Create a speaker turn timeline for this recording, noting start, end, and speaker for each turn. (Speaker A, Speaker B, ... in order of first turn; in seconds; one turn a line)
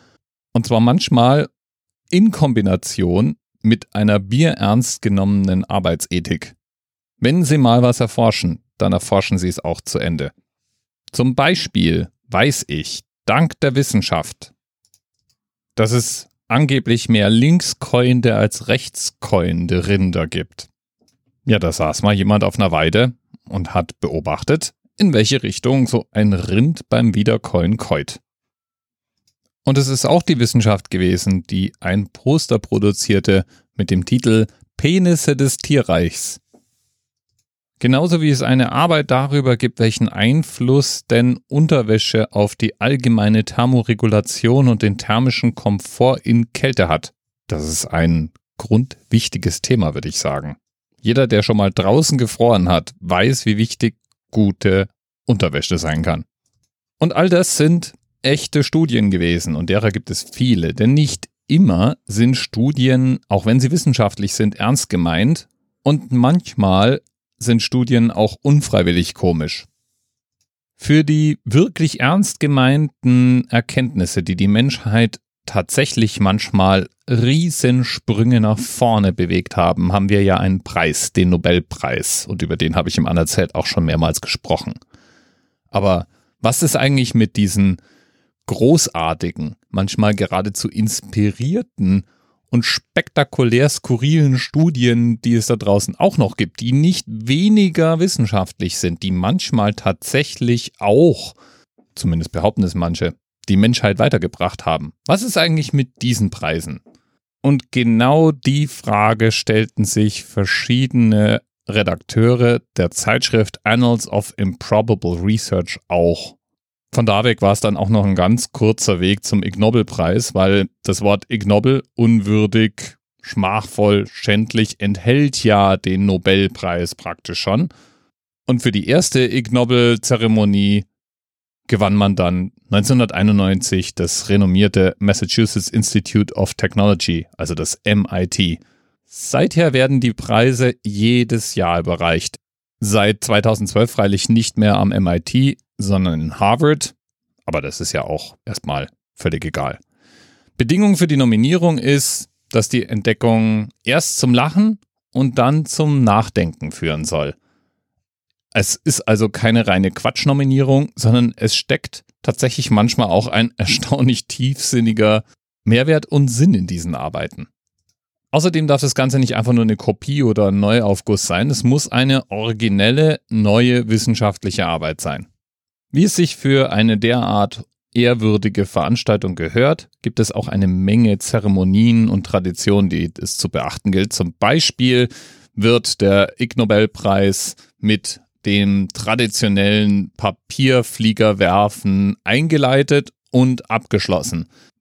Speaker A: 0.5-1.5
Speaker A: 2.1-6.6
Speaker A: 7.2-10.3
Speaker A: 11.1-14.5
Speaker A: 15.8-20.7
Speaker A: 21.5-28.2
Speaker A: 29.6-36.4
Speaker A: 37.8-56.3
Speaker A: 57.0-69.7
Speaker A: 70.8-84.8
Speaker A: 85.7-87.8
Speaker A: 88.5-101.4
Speaker A: 102.0-106.8
Speaker A: 107.4-116.4
Speaker A: 116.9-127.7
Speaker A: 128.5-130.9
Speaker A: 131.7-146.9
Speaker A: 147.5-149.8
Speaker A: 150.6-157.4
Speaker A: 158.5-167.5
Speaker A: 168.3-175.3
Speaker A: 175.9-194.5